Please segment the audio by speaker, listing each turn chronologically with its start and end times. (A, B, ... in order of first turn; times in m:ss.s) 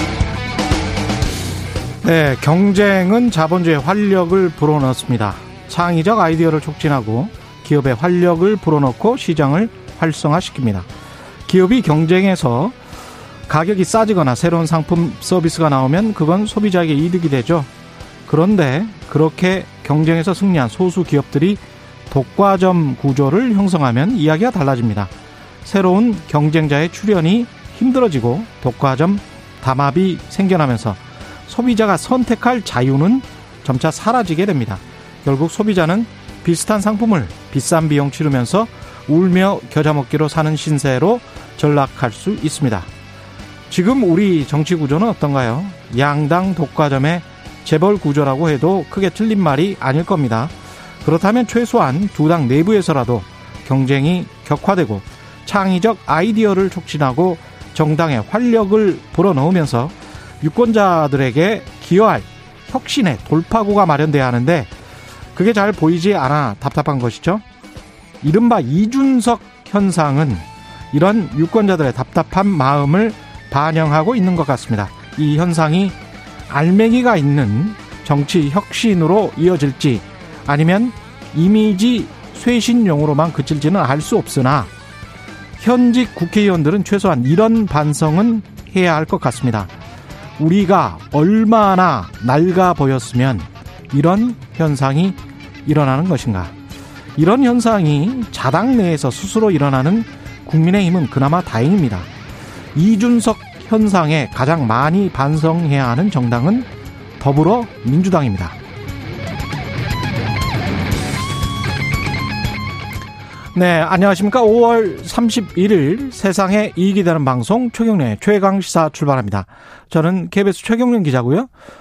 0:02.0-0:10.9 A
0:11.5-0:12.8 A
0:13.5-0:17.7 A
0:18.3-0:25.1 A
0:25.6-0:42.9 A
0:43.7-1:04.7 A
1:05.4-1:07.4 A
1:08.2-1:16.0 A
1:16.5-1:24.7 A
1:25.6-1:29.7 A
1:30.4-1:36.5 A
1:37.2-1:42.1 A
1:42.8-1:46.7 A
1:47.2-1:48.6 A
1:53.5-2:01.5 A